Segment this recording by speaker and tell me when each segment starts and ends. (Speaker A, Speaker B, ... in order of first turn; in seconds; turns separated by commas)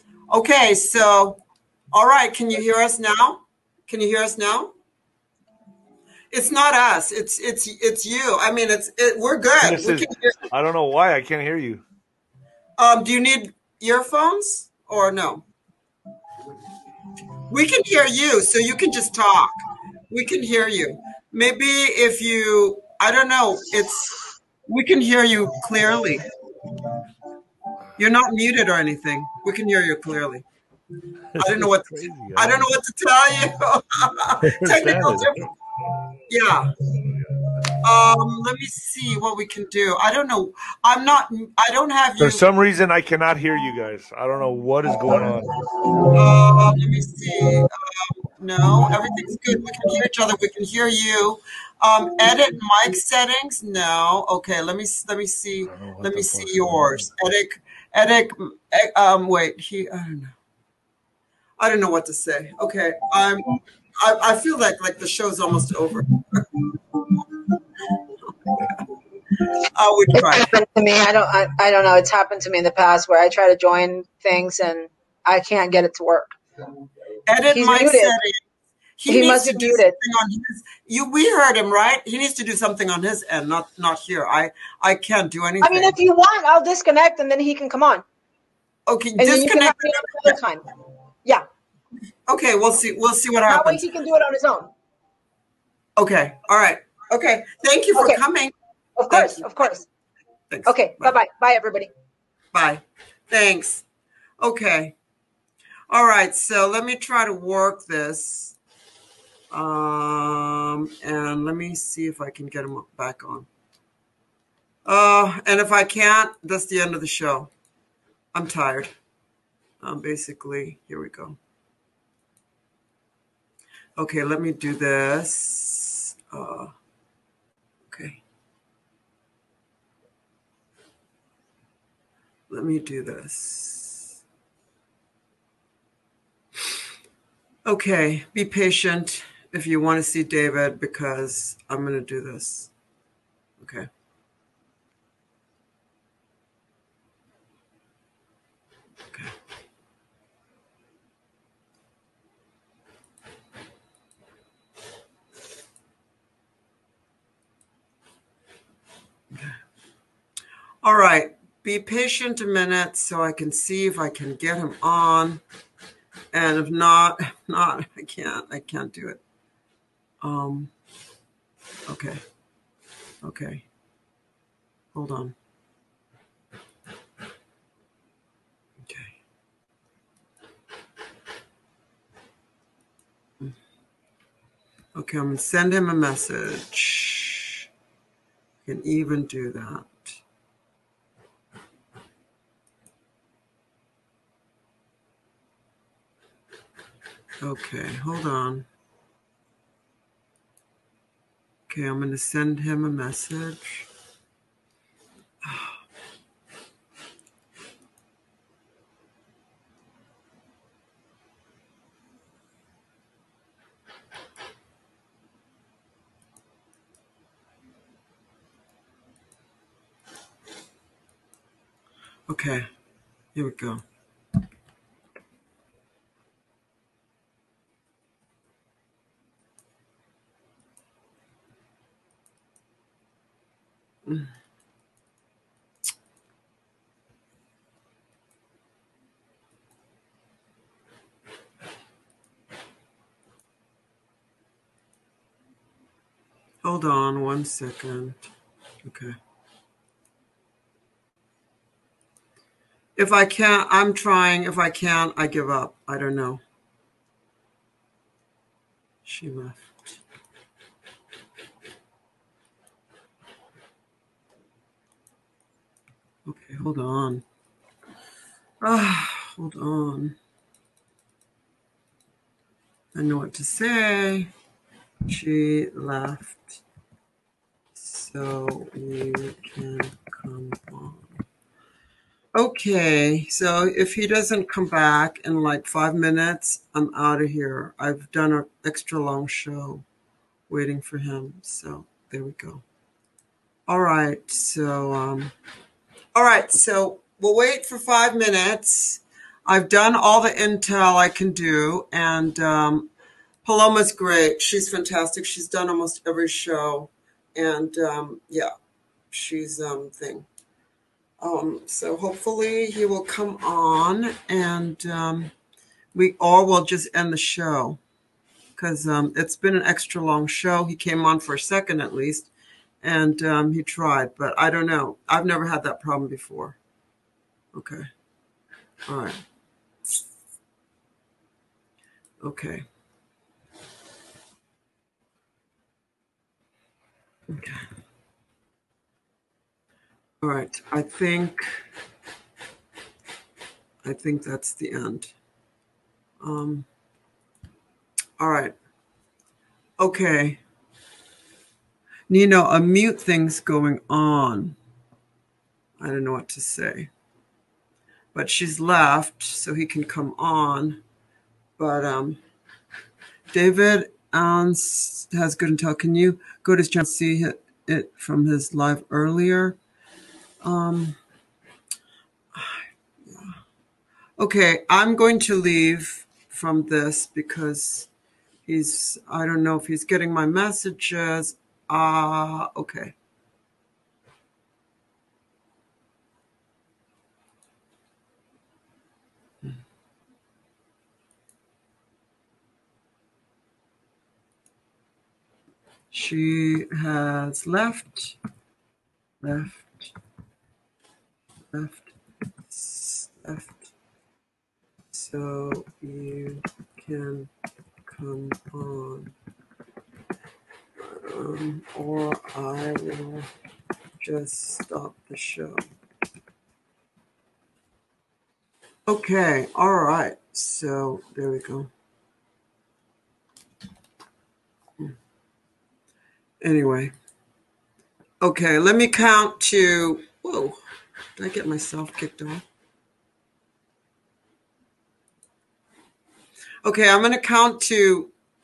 Speaker A: 0.3-1.4, Speaker A: 1.9-4.7, Speaker A: 6.3-10.4, Speaker B: 9.6-11.8, Speaker A: 12.8-15.4, Speaker A: 17.5-19.6, Speaker A: 20.1-24.1, Speaker A: 24.7-26.2, Speaker A: 28.0-30.4, Speaker B: 31.3-32.7, Speaker A: 31.4-35.5, Speaker B: 34.4-35.5, Speaker A: 36.3-36.7, Speaker A: 37.8-42.5, Speaker B: 42.2-46.0, Speaker A: 46.1-60.3, Speaker B: 55.7-57.1, Speaker A: 61.6-63.4, Speaker A: 64.0-66.5, Speaker A: 68.2-68.8, Speaker A: 69.8-70.5, Speaker C: 70.2-76.3, Speaker A: 77.3-78.4, Speaker C: 77.5-78.2, Speaker A: 79.0-86.0, Speaker C: 79.1-80.0, Speaker C: 85.6-88.0, Speaker A: 88.9-90.4, Speaker C: 89.2-90.6, Speaker A: 92.3-93.8, Speaker C: 93.5-94.7, Speaker A: 96.0-98.5, Speaker C: 98.0-98.2, Speaker C: 99.0-99.9, Speaker A: 99.1-99.5, Speaker A: 100.5-101.2, Speaker C: 100.7-101.9, Speaker A: 102.5-103.8, Speaker A: 104.4-104.9, Speaker A: 105.9-108.6, Speaker A: 109.5-113.5, Speaker A: 114.9-117.5, Speaker A: 118.3-118.9, Speaker A: 119.8-121.4, Speaker A: 124.0-126.7, Speaker A: 127.9-128.2, Speaker A: 132.5-134.1, Speaker A: 137.7-142.7, Speaker A: 143.6-143.9, Speaker A: 160.8-165.4, Speaker A: 166.3-169.2, Speaker A: 170.2-170.7, Speaker A: 171.9-172.2, Speaker A: 173.2-173.7, Speaker A: 174.9-175.3, Speaker A: 178.8-179.1, Speaker A: 184.9-187.6, Speaker A: 188.7-190.2, Speaker A: 197.4-198.7, Speaker A: 201.7-203.9, Speaker A: 205.4-205.8, Speaker A: 222.3-222.7, Speaker A: 223.3-223.8, Speaker A: 246.6-248.2, Speaker A: 248.8-249.1, Speaker A: 253.0-256.4, Speaker A: 259.1-259.9, Speaker A: 266.3-267.2, Speaker A: 268.6-270.2, Speaker A: 272.9-274.3, Speaker A: 275.1-276.6, Speaker A: 277.8-281.1, Speaker A: 282.4-289.8, Speaker A: 290.5-292.6, Speaker A: 293.7-295.3, Speaker A: 296.1-302.9, Speaker A: 303.4-308.5, Speaker A: 309.1-310.3, Speaker A: 311.2-315.3, Speaker A: 315.9-317.8, Speaker A: 318.6-322.3, Speaker A: 322.8-326.6, Speaker A: 327.5-327.9, Speaker A: 328.9-329.2, Speaker A: 332.2-332.6, Speaker A: 337.3-337.6, Speaker A: 340.2-341.4, Speaker A: 343.8-345.1, Speaker A: 346.2-346.7, Speaker A: 348.2-348.6, Speaker A: 349.8-350.4, Speaker A: 352.1-354.6, Speaker A: 355.8-356.9, Speaker A: 358.1-360.8, Speaker A: 361.6-362.2, Speaker A: 363.3-369.6, Speaker A: 370.4-371.0, Speaker A: 372.3-373.3, Speaker A: 374.2-377.9, Speaker A: 378.5-382.9, Speaker A: 395.9-398.2, Speaker A: 399.2-399.9, Speaker A: 401.5-401.9, Speaker A: 402.5-403.7, Speaker A: 404.9-407.3, Speaker A: 407.9-409.1, Speaker A: 410.8-413.3, Speaker A: 414.0-415.6, Speaker A: 418.9-421.7, Speaker A: 426.4-426.9, Speaker A: 428.2-430.6, Speaker A: 431.2-432.4, Speaker A: 436.6-438.1